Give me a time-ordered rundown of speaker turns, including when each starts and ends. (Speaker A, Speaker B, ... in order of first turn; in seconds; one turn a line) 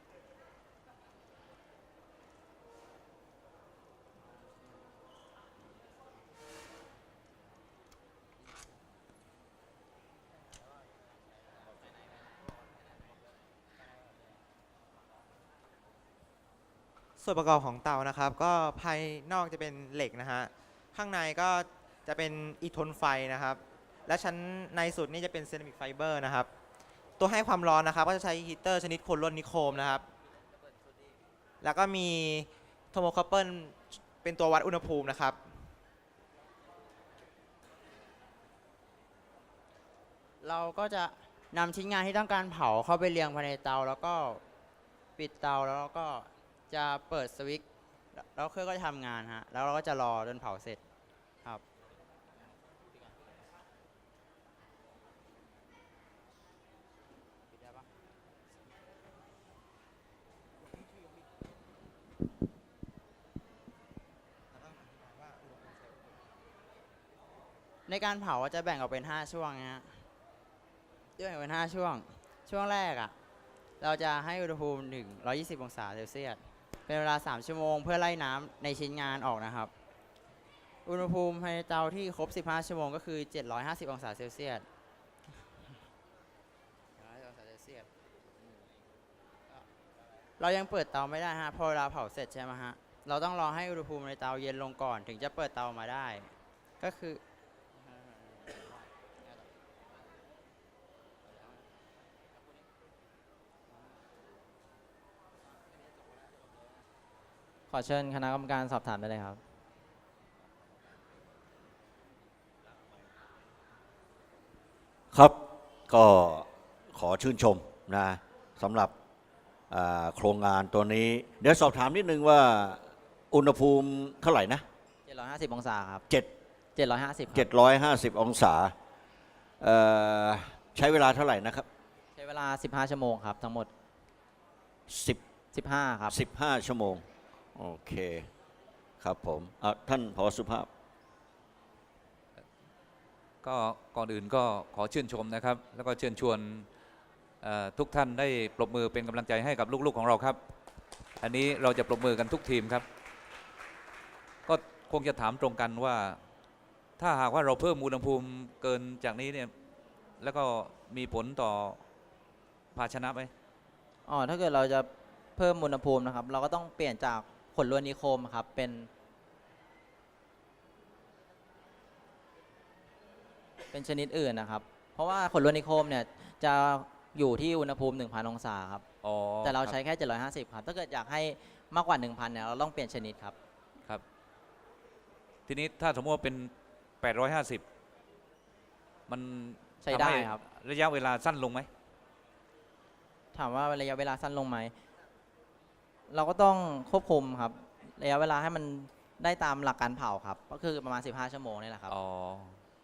Speaker A: 17.2-26.5
Speaker A: 27.2-30.1
Speaker A: 31.6-35.8
Speaker B: 40.4-44.4
Speaker B: 45.2-50.8
Speaker B: 57.5-57.9
Speaker B: 67.9-70.1
Speaker B: 71.2-73.2
Speaker B: 73.8-79.7
Speaker B: 80.8-84.7
Speaker B: 87.0-87.9
Speaker B: 90.4-97.2
Speaker C: 107.7-109.4
Speaker D: 115.1-118.9
Speaker D: 119.7-124.7
Speaker C: 125.0-126.0
Speaker C: 126.8-127.5
Speaker D: 127.3-128.7
Speaker D: 129.6-131.7
Speaker C: 132.2-133.7
Speaker D: 134.9-135.2
Speaker C: 135.5-136.2
Speaker D: 136.1-138.3
Speaker D: 139.0-140.7
Speaker E: 143.4-146.7
Speaker E: 147.4-150.4
Speaker E: 151.2-152.9
Speaker E: 154.5-156.2
Speaker E: 157.0-159.5
Speaker E: 160.2-161.8
Speaker E: 162.7-163.3
Speaker C: 164.1-168.9
Speaker C: 173.7-178.8
Speaker E: 179.0-179.8
Speaker C: 179.4-183.3
Speaker E: 185.5-186.5
Speaker E: 187.0-187.6
Speaker E: 189.1-191.7
Speaker C: 189.8-190.4
Speaker C: 193.3-194.7
Speaker C: 196.1-201.9
Speaker E: 201.9-202.6